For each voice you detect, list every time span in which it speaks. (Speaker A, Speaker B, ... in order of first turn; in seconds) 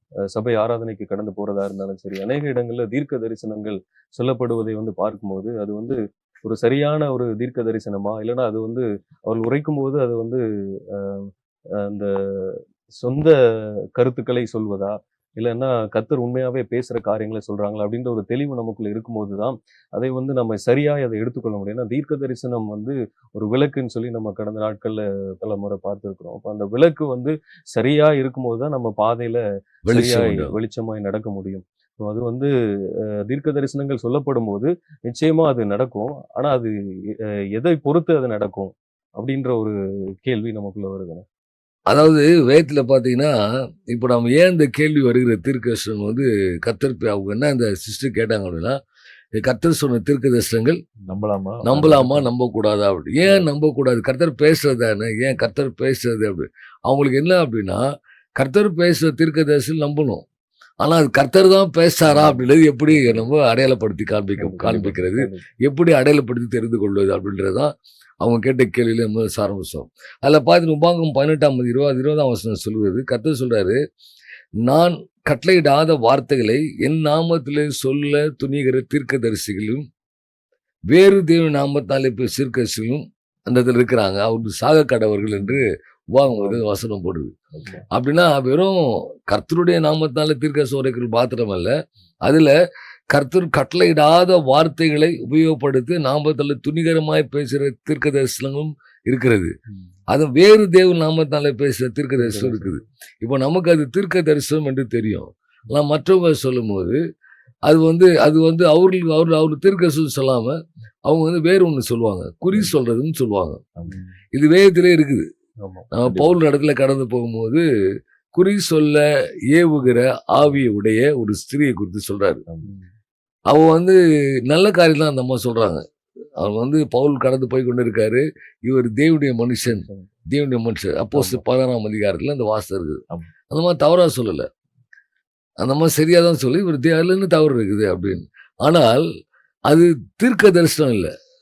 Speaker A: 0.3-13.4, 13.9-41.2, 64.5-65.4, 102.2-102.8, 122.6-122.9, 129.7-130.1
Speaker B: 29.9-30.5, 41.9-43.4, 43.9-48.8, 49.4-50.8, 51.6-57.8, 58.4-60.2, 60.8-73.8, 74.6-79.8, 80.9-87.3, 87.9-92.5, 93.1-99.5, 100.1-107.0, 107.7-113.6, 114.3-115.3, 115.9-117.6, 118.3-122.4, 123.5-125.8, 126.4-134.5, 135.6-139.1, 139.7-141.1
Speaker C: 51.1-52.3, 62.1-62.4, 64.5-65.2, 87.5-87.8, 116.0-116.4